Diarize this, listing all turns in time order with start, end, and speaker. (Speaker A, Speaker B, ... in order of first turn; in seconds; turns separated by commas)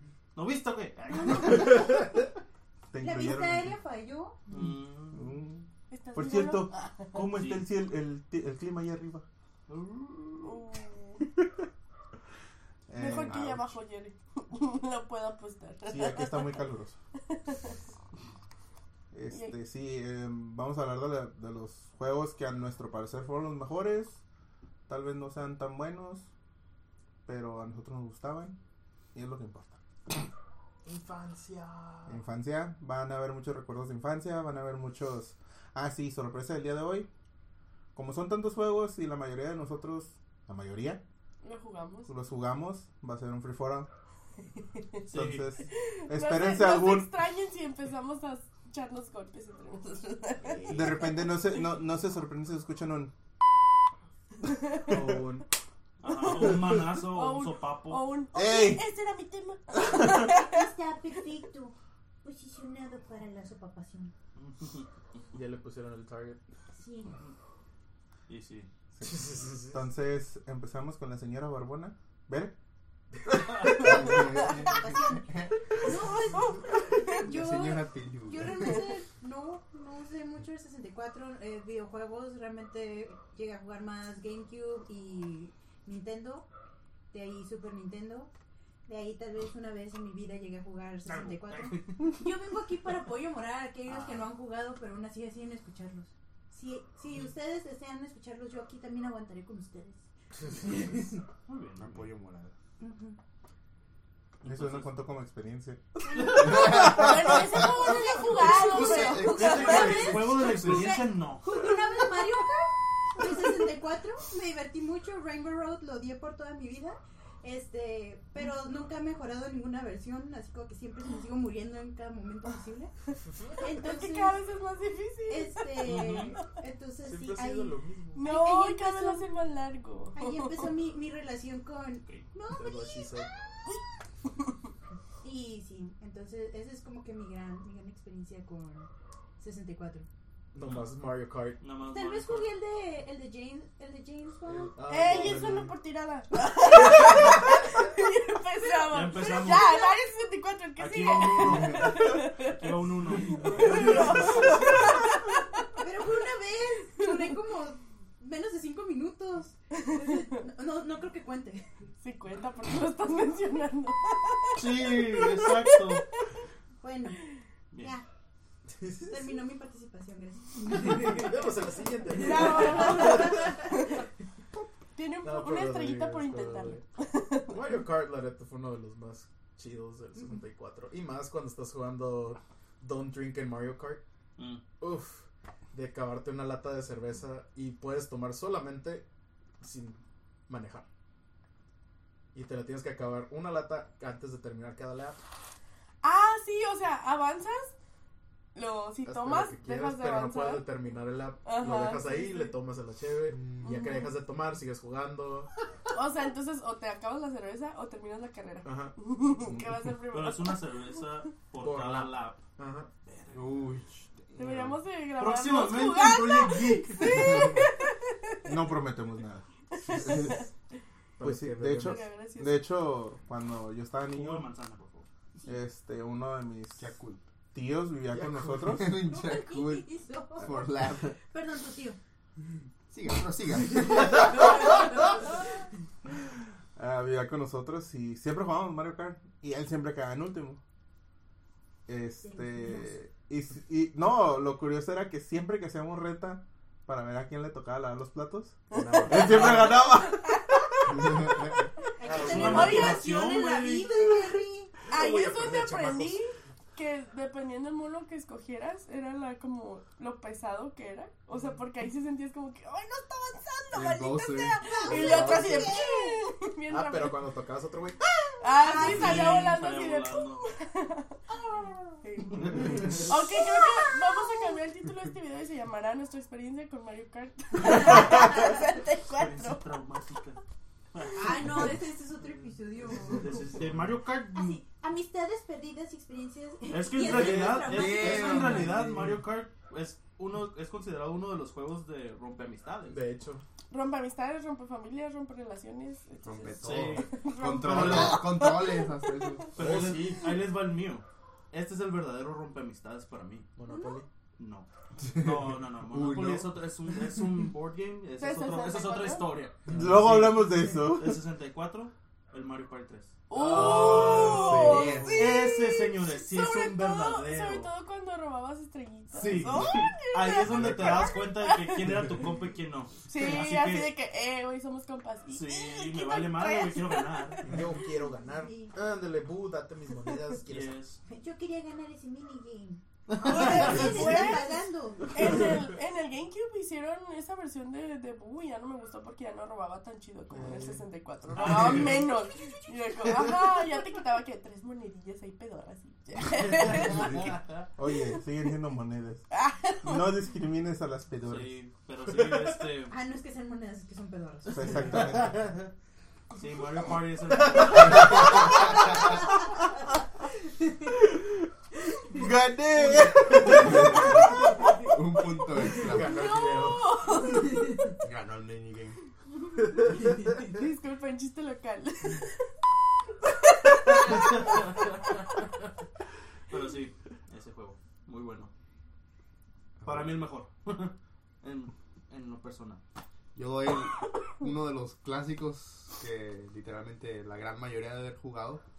Speaker A: 0.3-2.1, Speaker B: 2.9-3.8, Speaker C: 3.0-4.4, Speaker A: 4.5-5.3, Speaker B: 5.1-9.2, Speaker D: 5.9-7.3, Speaker A: 7.3-7.6, Speaker A: 9.7-10.6, Speaker D: 10.4-11.2, Speaker B: 12.9-13.6, Speaker D: 12.9-16.6, Speaker B: 15.8-17.0, Speaker D: 17.3-17.8, Speaker B: 19.1-24.2, Speaker D: 19.3-19.6, Speaker B: 24.9-26.3, Speaker B: 27.3-28.6, Speaker B: 29.1-29.8, Speaker E: 30.9-32.2, Speaker B: 32.1-37.1, Speaker B: 38.0-41.0, Speaker D: 41.4-42.1, Speaker B: 42.1-43.9, Speaker B: 45.1-47.1, Speaker A: 45.1-45.5, Speaker D: 45.7-51.6, Speaker C: 50.5-50.9, Speaker B: 50.7-53.1, Speaker D: 54.4-55.0, Speaker E: 54.9-55.5, Speaker A: 56.0-58.0, Speaker D: 56.1-60.6, Speaker B: 58.3-58.8, Speaker B: 59.9-60.3, Speaker C: 60.0-64.1, Speaker A: 64.4-64.9, Speaker E: 65.3-66.4, Speaker C: 66.7-67.2, Speaker A: 68.3-68.7, Speaker B: 69.0-72.5, Speaker E: 69.0-69.8, Speaker F: 73.7-75.5, Speaker C: 74.2-86.5, Speaker F: 77.2-79.0, Speaker C: 87.1-88.3, Speaker C: 88.9-100.1, Speaker A: 91.0-92.3, Speaker A: 93.9-94.3, Speaker E: 100.3-101.2, Speaker A: 101.5-102.1, Speaker F: 101.8-102.5, Speaker C: 102.8-103.2, Speaker A: 104.4-105.0, Speaker B: 104.4-105.8, Speaker D: 106.1-111.0, Speaker F: 106.3-107.4, Speaker B: 106.5-107.7, Speaker C: 107.7-122.9, Speaker F: 108.4-109.6, Speaker E: 108.9-110.5, Speaker A: 109.2-111.8, Speaker C: 123.5-124.4, Speaker D: 123.6-126.1, Speaker C: 125.3-129.4, Speaker A: 125.8-126.4, Speaker E: 127.0-128.3, Speaker D: 128.2-130.7, Speaker C: 130.1-133.8, Speaker E: 132.5-133.3, Speaker C: 135.2-138.9, Speaker C: 139.4-140.1, Speaker E: 140.5-141.7, Speaker A: 141.6-142.6, Speaker C: 141.8-145.5, Speaker E: 144.4-145.7, Speaker D: 144.9-155.7, Speaker A: 148.9-149.8, Speaker A: 150.8-154.4, Speaker F: 151.4-152.0, Speaker C: 153.8-154.9, Speaker C: 155.8-161.7, Speaker D: 159.7-160.4, Speaker D: 162.0-166.0, Speaker A: 164.6-166.1, Speaker C: 166.8-167.2, Speaker A: 167.7-168.0, Speaker C: 167.7-168.1, Speaker E: 168.7-169.3, Speaker C: 169.0-171.3, Speaker E: 170.7-173.6, Speaker C: 172.1-173.7, Speaker D: 172.2-173.8, Speaker D: 175.0-177.6, Speaker E: 175.2-176.8, Speaker E: 177.5-184.0, Speaker A: 184.4-184.6, Speaker E: 184.8-189.1, Speaker E: 189.6-190.9, Speaker E: 192.3-195.2, Speaker D: 196.0-197.7, Speaker D: 198.6-200.7, Speaker E: 199.1-205.5, Speaker D: 201.4-202.6, Speaker F: 203.3-203.7, Speaker D: 203.6-204.1, Speaker D: 205.9-210.6, Speaker E: 208.6-208.9, Speaker B: 209.4-209.9, Speaker A: 210.1-212.4, Speaker E: 211.6-212.9, Speaker A: 213.1-213.7, Speaker F: 213.3-214.8, Speaker D: 214.4-218.5, Speaker A: 215.2-217.4, Speaker B: 218.4-220.3, Speaker D: 219.7-220.5, Speaker F: 219.9-220.4, Speaker E: 221.2-222.0, Speaker B: 221.2-224.5, Speaker D: 221.8-222.7, Speaker A: 224.1-225.1, Speaker B: 225.5-226.9, Speaker F: 226.8-227.2, Speaker B: 227.5-229.0, Speaker F: 228.1-231.2, Speaker C: 229.0-232.0, Speaker F: 232.9-234.5, Speaker C: 234.3-235.5, Speaker D: 234.3-234.9, Speaker B: 236.8-240.6, Speaker B: 241.9-251.2, Speaker C: 242.2-243.0, Speaker E: 248.7-249.8, Speaker D: 248.8-249.1, Speaker A: 249.1-249.8, Speaker F: 250.9-251.6, Speaker C: 252.0-254.7, Speaker E: 252.0-253.0, Speaker A: 252.1-254.1, Speaker D: 252.2-253.3, Speaker E: 254.9-256.2, Speaker D: 254.9-267.2, Speaker F: 263.7-264.6, Speaker C: 264.6-266.3, Speaker E: 264.8-265.7, Speaker E: 266.7-268.0, Speaker C: 268.1-269.6, Speaker D: 268.4-271.2, Speaker A: 268.7-270.4, Speaker C: 271.3-272.1, Speaker D: 272.0-279.6, Speaker A: 272.4-273.1, Speaker C: 273.2-274.6, Speaker C: 277.7-278.6, Speaker A: 279.1-280.4, Speaker A: 280.9-282.3, Speaker C: 281.1-283.7, Speaker A: 282.9-284.6, Speaker C: 284.2-288.9, Speaker A: 286.7-293.0, Speaker F: 287.1-289.2, Speaker E: 292.9-293.4, Speaker D: 293.7-299.4, Speaker F: 296.2-299.6, Speaker A: 296.6-298.3, Speaker A: 299.6-303.5, Speaker E: 299.6-300.4, Speaker E: 303.6-304.1, Speaker C: 303.7-304.0, Speaker A: 304.4-317.7, Speaker F: 305.0-306.6, Speaker D: 308.2-309.4, Speaker B: 309.7-311.3, Speaker D: 313.3-321.8, Speaker F: 313.5-315.2, Speaker E: 313.5-314.3, Speaker A: 319.1-323.9, Speaker F: 319.1-319.9, Speaker F: 320.4-321.1, Speaker D: 323.1-327.6, Speaker A: 325.3-327.5, Speaker E: 327.4-330.8, Speaker C: 328.1-328.7, Speaker A: 330.5-331.0, Speaker C: 331.1-335.4, Speaker D: 333.2-347.3, Speaker A: 333.2-334.3, Speaker E: 340.4-340.8, Speaker A: 341.4-342.0, Speaker C: 342.2-342.8, Speaker B: 346.9-349.3, Speaker D: 349.3-350.1, Speaker B: 349.8-351.6, Speaker A: 351.2-353.0, Speaker E: 352.1-352.6, Speaker C: 352.9-355.1, Speaker B: 354.5-355.5, Speaker A: 354.9-355.7, Speaker A: 356.3-358.4, Speaker E: 357.3-358.4, Speaker B: 362.1-364.2, Speaker F: 363.7-364.1, Speaker F: 364.7-366.3, Speaker E: 365.8-367.1, Speaker D: 366.2-367.6, Speaker F: 368.0-369.0, Speaker E: 369.6-370.4, Speaker D: 370.4-372.4, Speaker D: 373.4-374.5, Speaker A: 374.2-374.6, Speaker A: 376.5-378.5, Speaker A: 379.9-382.8, Speaker F: 383.4-388.6